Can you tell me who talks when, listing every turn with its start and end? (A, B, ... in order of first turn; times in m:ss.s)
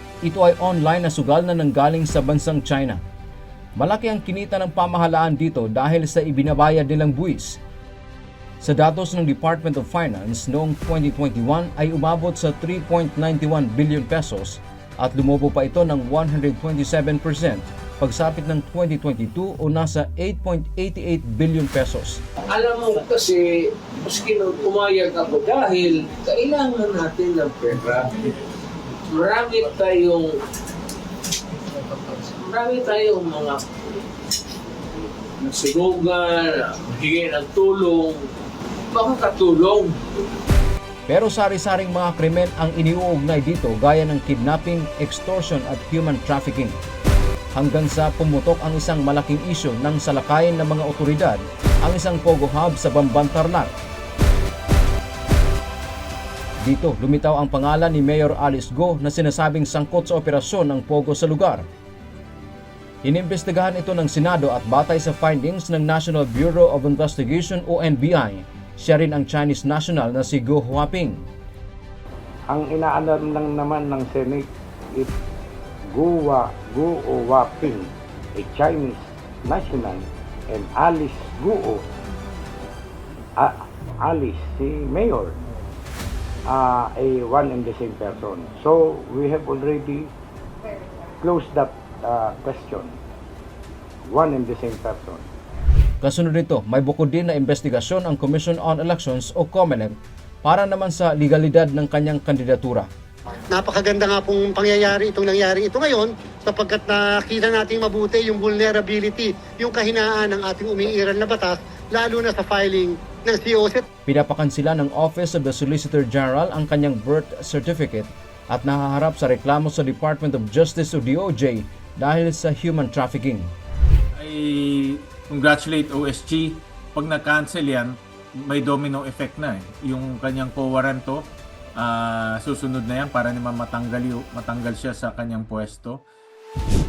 0:00.2-0:03.0 A
0:03.8-0:07.6 A
0:08.6-0:22.2 A
0:22.6-0:23.5 B
0:24.1-0:28.1 B
0:29.2-0:30.3 B
0:32.3-0:33.6 B
0:35.4-0:38.2 B
0:38.9-0:39.9 B
0:41.1-0:46.8 A
0:47.5-0:53.7 A
0:56.6-1:01.6 A
1:03.0-1:11.2 A
1:12.5-1:15.1 C
1:15.9-1:21.8 C
1:23.4-1:25.4 C
1:26.5-1:30.1 C
1:31.2-1:33.0 C
1:34.1-1:35.3 C
1:36.0-1:42.9 A
1:43.5-1:53.8 D
1:54.0-2:03.5 A
2:04.2-2:16.0 E